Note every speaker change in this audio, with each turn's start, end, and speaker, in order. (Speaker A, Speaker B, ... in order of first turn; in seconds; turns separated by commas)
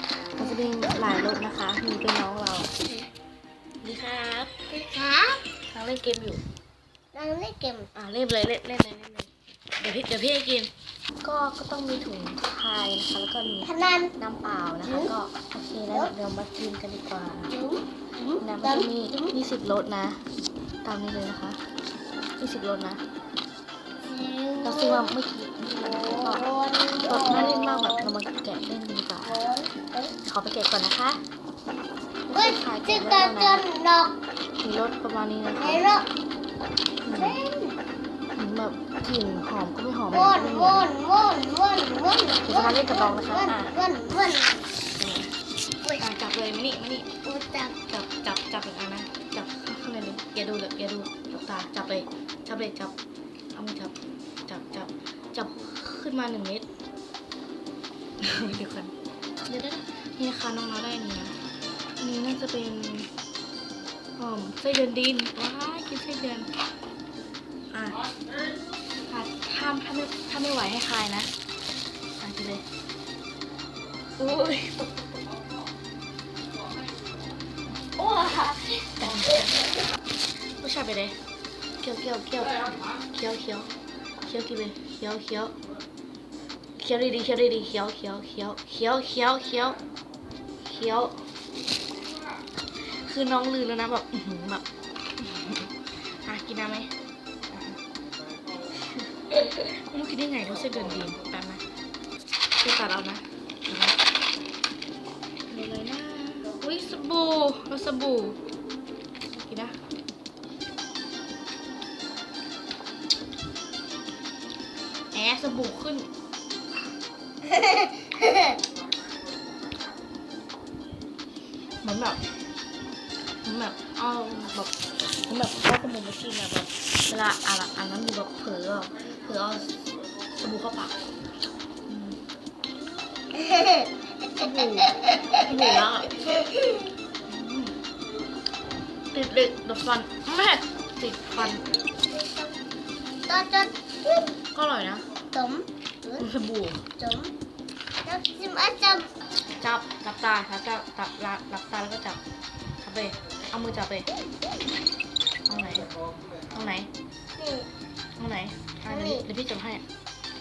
Speaker A: 0.4-2.7, Speaker A: 3.8-4.5, Speaker B: 4.7-5.4, Speaker A: 5.7-6.4, Speaker B: 7.1-7.9, Speaker A: 8.0-17.5, Speaker B: 13.6-14.1, Speaker B: 14.8-15.1, Speaker B: 17.5-19.4, Speaker A: 18.4-20.2, Speaker A: 20.8-21.6, Speaker A: 22.4-23.0, Speaker B: 24.0-25.1, Speaker A: 24.6-26.4, Speaker B: 25.8-28.1, Speaker A: 27.0-29.4, Speaker B: 29.2-30.1, Speaker A: 30.2-31.2, Speaker A: 32.3-33.6, Speaker B: 32.3-34.2, Speaker A: 34.6-35.8, Speaker B: 35.6-36.1, Speaker A: 37.0-37.4, Speaker B: 37.1-37.8, Speaker A: 38.4-40.9, Speaker B: 40.1-44.6, Speaker A: 42.5-43.7, Speaker A: 45.0-45.3, Speaker A: 46.0-47.1, Speaker B: 47.2-47.8, Speaker A: 47.8-52.9, Speaker A: 53.5-53.9, Speaker A: 54.5-56.7, Speaker A: 58.2-58.9, Speaker A: 59.5-61.4, Speaker A: 62.0-63.1, Speaker A: 64.2-66.5, Speaker A: 67.7-68.0, Speaker A: 69.1-71.3, Speaker A: 72.2-72.6, Speaker A: 74.2-75.0, Speaker A: 78.0-79.6, Speaker A: 80.6-81.2, Speaker A: 81.8-83.7, Speaker A: 84.2-85.6, Speaker A: 86.8-89.8, Speaker A: 90.6-91.2, Speaker A: 92.8-94.7, Speaker A: 95.2-96.9, Speaker A: 97.5-97.8, Speaker A: 99.0-101.6, Speaker A: 102.6-104.0, Speaker A: 105.5-108.4, Speaker A: 109.2-109.8, Speaker A: 115.1-116.1, Speaker B: 117.4-118.6, Speaker A: 121.8-122.2, Speaker A: 123.4-129.8, Speaker A: 130.4-131.0, Speaker A: 131.9-132.2, Speaker B: 133.3-134.5, Speaker A: 134.4-136.5, Speaker A: 137.3-137.8, Speaker A: 139.1-141.6, Speaker B: 142.0-142.6, Speaker B: 143.3-143.8, Speaker A: 144.5-145.1, Speaker B: 145.3-146.2, Speaker A: 146.2-146.8, Speaker B: 147.0-147.3, Speaker B: 148.1-149.1, Speaker A: 149.6-152.2, Speaker A: 152.8-154.1, Speaker A: 155.5-155.9, Speaker A: 156.5-156.9, Speaker B: 157.4-157.7, Speaker A: 158.2-159.8, Speaker B: 158.9-159.3